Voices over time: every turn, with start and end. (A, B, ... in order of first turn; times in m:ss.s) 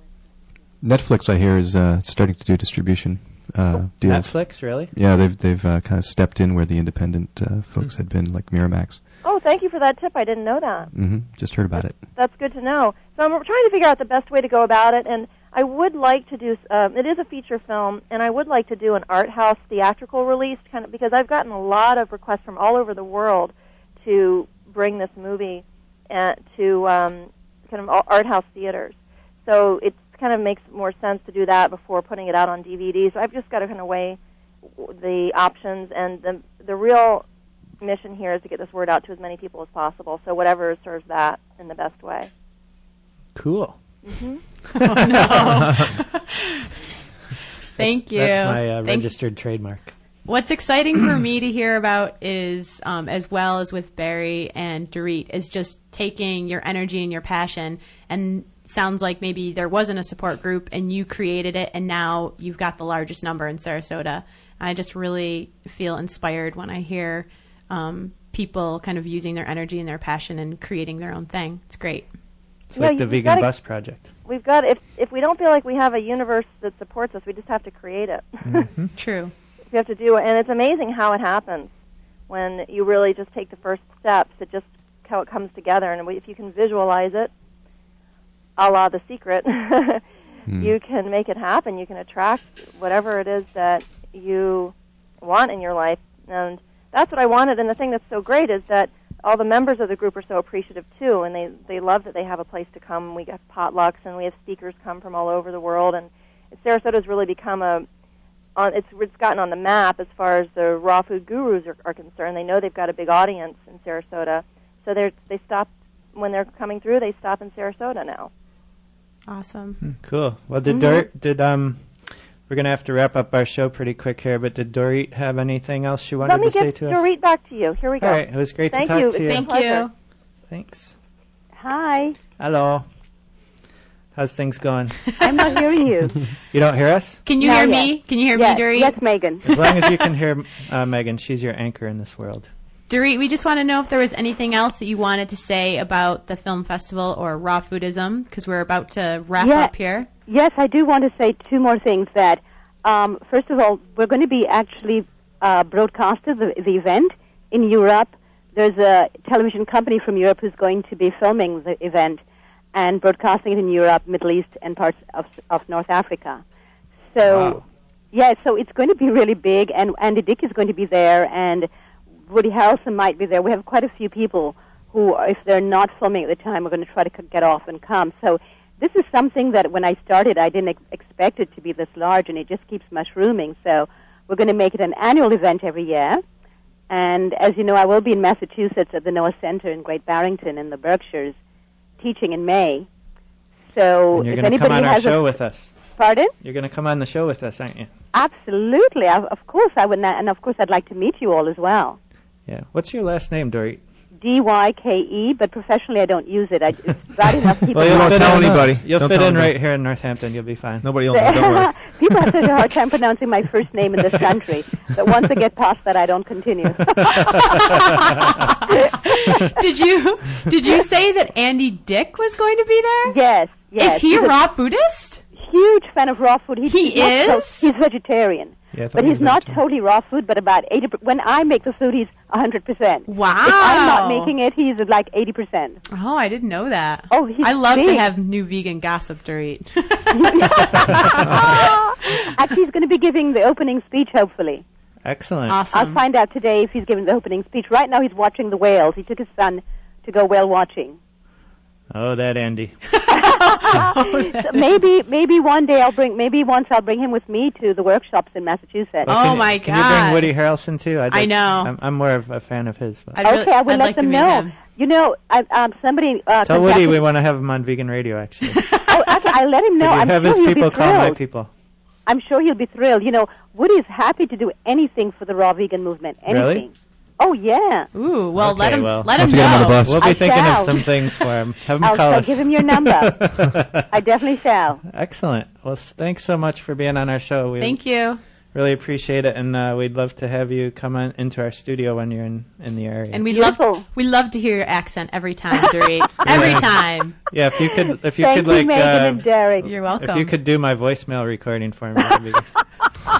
0:00.8-0:09.0 A
0:04.0-0:04.9 B
0:09.2-0:10.9 C
0:10.9-0:12.1 A
0:12.0-0:34.2 C
0:34.8-0:37.3 C
0:37.8-0:42.3 C
0:43.4-0:43.8 B
0:44.0-0:44.4 C
0:44.8-0:46.7 D
0:44.9-0:45.6 B
0:47.8-0:49.1 D
0:47.8-0:50.0 B
0:50.2-1:12.1 D
1:12.7-1:14.1 B
1:12.8-1:18.7 C
1:18.4-1:18.9 E
1:19.0-1:19.3 D
1:19.7-1:21.7 C
1:22.3-1:27.3 C
1:28.6-1:30.0 C
1:30.5-1:30.8 A
1:30.6-1:47.9 C
1:48.6-1:58.3 C
1:59.3-1:59.8 D
2:00.0-2:07.0 B
2:00.7-2:01.0 F
2:06.2-2:09.9 C
2:08.0-2:09.5 B
2:09.3-2:09.9 D
2:10.5-2:11.0 B
2:11.6-2:12.2 F
2:12.4-2:12.9 B
2:14.2-2:15.1 B
2:15.2-2:15.5 D
2:15.2-2:16.2 F
2:16.5-2:17.2 B
2:17.3-2:19.0 D
2:17.4-2:19.5 F
2:19.4-2:22.5 B
2:22.9-2:30.1 D
2:29.4-2:29.7 F
2:30.3-2:42.2 F
2:42.7-2:46.4 F
2:47.1-2:51.7 F
2:47.2-2:47.6 E
2:52.3-3:06.2 F
3:06.9-3:11.4 F
3:12.0-3:12.9 F
3:13.7-3:15.3 F
3:14.1-3:15.8 B
3:16.0-3:16.3 F
3:16.4-3:17.9 B
3:18.1-3:22.0 F
3:22.5-3:23.8 B
3:24.2-3:28.5 F
3:27.7-3:30.9 B
3:27.8-3:29.6 E
3:30.8-3:31.8 E
3:31.1-3:37.6 F
3:37.3-3:37.8 D
3:38.4-3:43.2 D
3:43.0-3:44.4 F
3:43.8-3:45.2 D
3:45.4-3:55.8 F
3:46.7-3:47.7 D
3:48.7-3:49.6 E
3:53.1-3:54.3 D
3:55.9-4:01.7 D
3:57.1-3:58.1 F
4:00.1-4:04.6 F
4:05.0-4:05.6 B
4:05.5-4:06.0 D
4:05.7-4:11.0 F
4:11.9-4:12.8 B
4:13.1-4:14.7 D
4:13.2-4:19.1 F
4:19.0-4:23.2 B
4:19.1-4:20.4 D
4:21.1-4:21.7 D
4:23.2-4:24.6 D
4:23.2-4:27.1 F
4:26.4-4:28.7 B
4:28.6-4:29.2 D
4:28.9-4:31.2 F
4:29.8-4:31.5 B
4:32.1-4:37.9 F
4:36.3-4:36.6 B
4:37.9-4:40.3 D
4:38.4-4:43.9 B
4:39.2-4:40.1 A
4:39.4-4:40.8 F
4:41.8-4:43.3 F
4:43.9-4:44.8 F
4:44.8-4:47.9 B
4:47.6-4:48.2 D
4:48.5-4:53.2 B
4:53.1-4:57.2 D
4:53.3-4:53.8 F
4:56.2-5:02.5 B
4:58.2-4:59.8 F
4:59.6-5:00.3 D